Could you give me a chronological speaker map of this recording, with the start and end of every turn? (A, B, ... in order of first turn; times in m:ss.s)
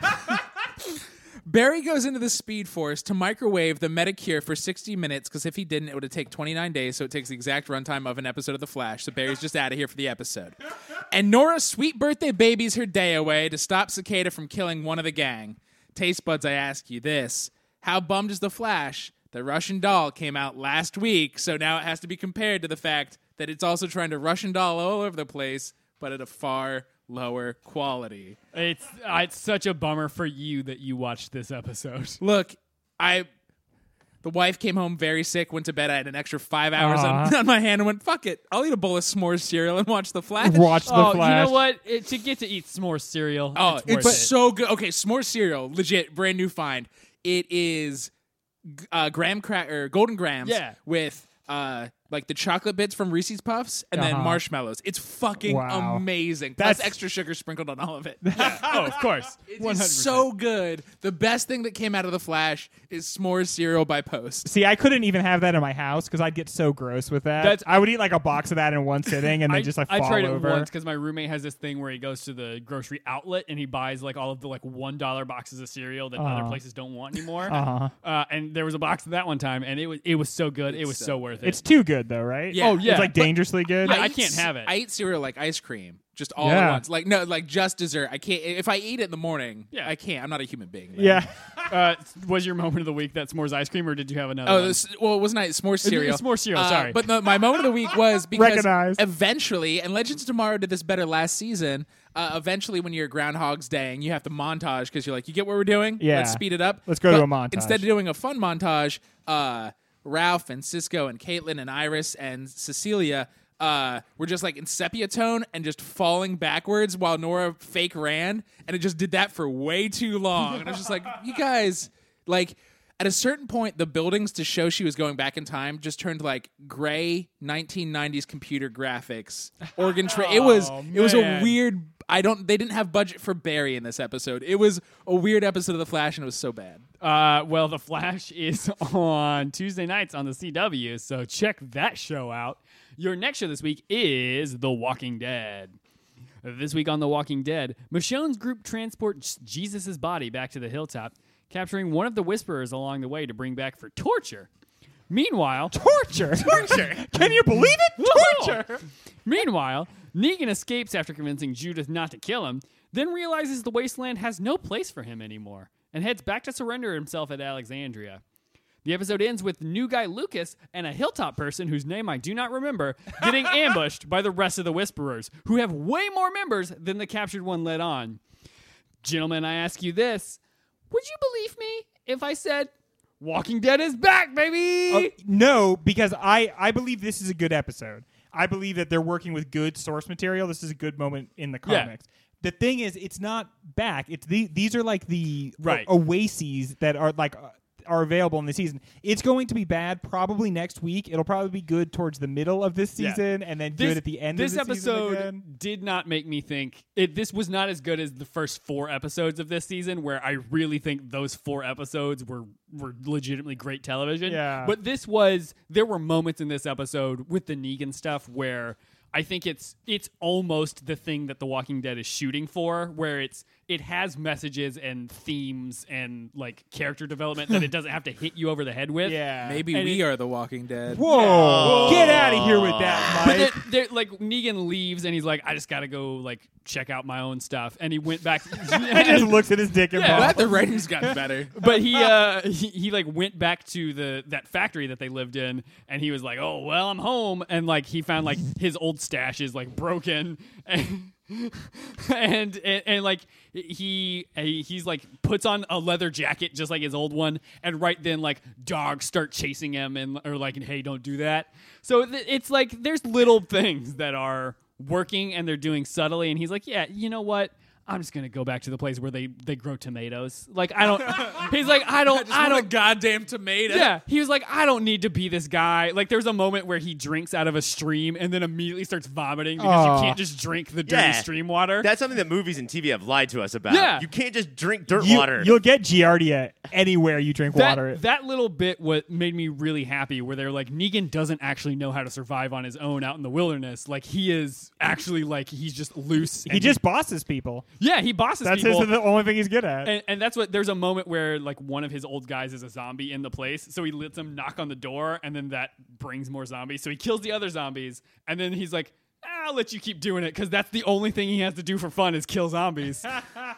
0:01.4-0:10.6 A
0:11.1-0:28.4 A
0:28.5-0:32.2 B
0:32.2-0:33.3 A
0:34.2-0:40.9 A
0:36.8-0:37.3 C
0:40.4-0:41.6 C
0:40.8-0:44.3 B
0:43.5-0:48.1 A
0:43.9-0:44.3 C
0:48.7-0:58.8 A
0:50.4-0:50.8 B
0:53.9-0:54.4 C
0:55.4-0:56.0 C
0:56.6-0:57.0 C
0:58.2-0:59.0 C
0:58.4-1:00.3 B
0:59.5-1:04.5 A
1:04.4-1:10.7 C
1:07.4-1:07.9 B
1:09.5-1:21.6 B
1:16.2-1:16.6 C
1:17.4-1:17.9 C
1:20.7-1:21.5 A
1:21.4-1:24.0 C
1:22.5-1:31.2 A
1:22.6-1:24.7 B
1:26.4-1:26.8 C
1:31.0-1:31.7 C
1:31.7-1:34.8 B
1:34.4-2:16.8 A
1:35.8-1:37.0 B
1:38.3-1:39.0 C
1:46.0-1:47.8 C
2:09.9-2:11.5 C
2:17.0-2:25.8 B
2:26.4-2:34.5 B
2:35.1-2:35.8 B
2:35.7-2:38.8 C
2:36.4-2:37.0 A
2:38.0-2:38.6 B
2:39.2-2:48.2 B
2:48.8-2:58.2 B
2:59.0-3:00.4 B
3:00.9-3:05.1 B
3:04.9-3:25.4 C
3:11.6-3:11.9 B
3:15.6-3:15.9 B
3:23.0-3:50.0 B
3:34.2-3:34.8 C
3:49.0-3:49.6 C
3:49.4-3:51.2 A
3:50.9-3:53.6 C
3:51.1-3:52.5 B
3:51.2-3:53.3 D
3:53.0-4:00.4 B
3:58.6-4:01.1 C
4:00.1-4:01.6 A
4:01.5-4:32.7 B
4:01.6-4:02.0 C
4:30.9-4:34.0 A
4:33.7-4:41.9 B
4:39.6-4:40.2 C
4:40.9-4:45.5 D
4:43.7-4:44.1 B
4:44.9-4:48.0 C
4:47.5-4:56.8 B
4:56.4-4:57.6 C
4:57.8-4:59.0 B
4:58.4-4:59.9 C
4:59.8-5:13.2 B